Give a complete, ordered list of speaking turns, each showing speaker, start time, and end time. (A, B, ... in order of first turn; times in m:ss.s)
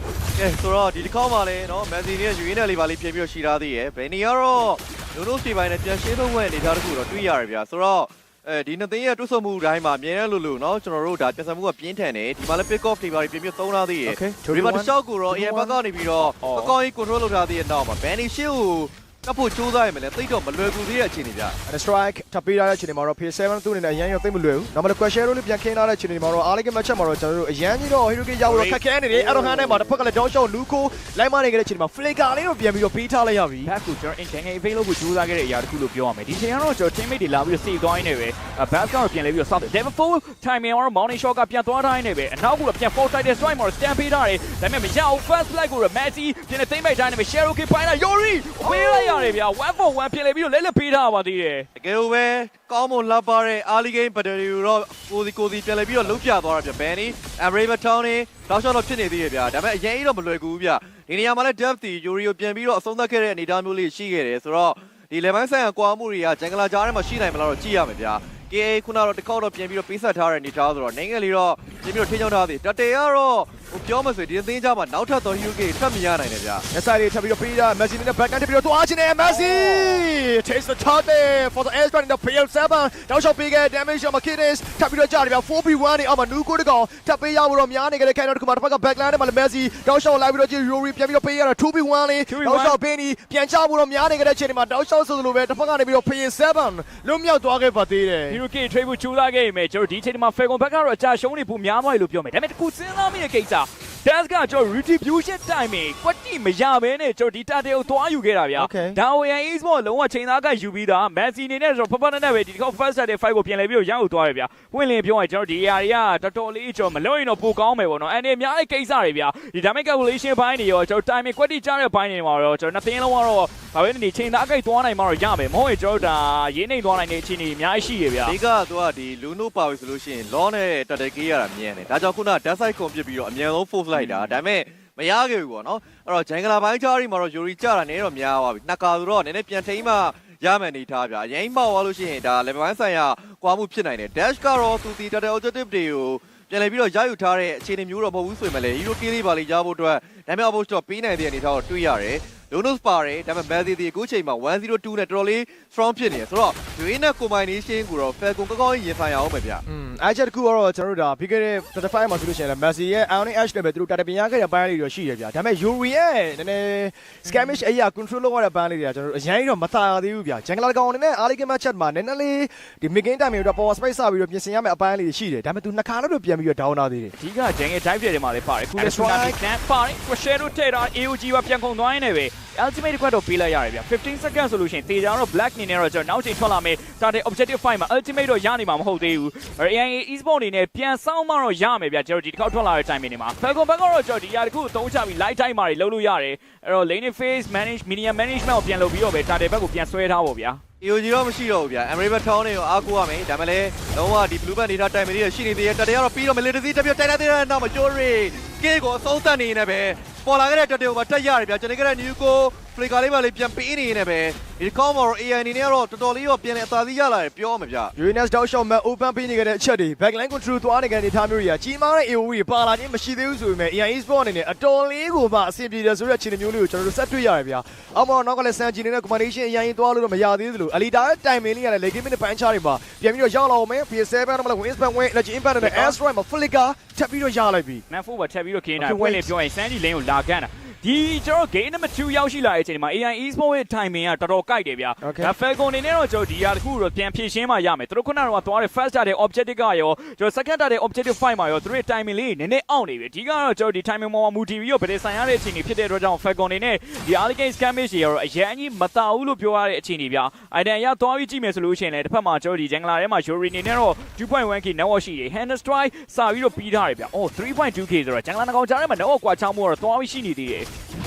0:00.4-0:21.6 A
0:14.1-0:15.8 B
0:16.4-0:16.7 C
0:21.7-0:33.7 B
0:28.4-0:29.9 C
0:33.6-0:51.7 C
0:48.6-0:49.4 B
0:51.8-1:16.6 A
1:16.7-1:38.4 B
1:19.3-1:20.0 C
1:32.3-1:32.8 C
1:38.3-2:08.4 C
1:48.6-1:49.0 B
2:08.2-2:39.6 A
2:14.0-2:14.4 C
2:39.7-2:57.1 B
2:57.2-3:20.6 C
2:58.8-2:59.4 B
3:20.8-3:37.9 A
3:38.0-3:57.8 B
3:55.6-3:56.0 C
3:57.9-4:30.7 C
3:58.8-3:59.3 B
4:05.0-4:05.3 B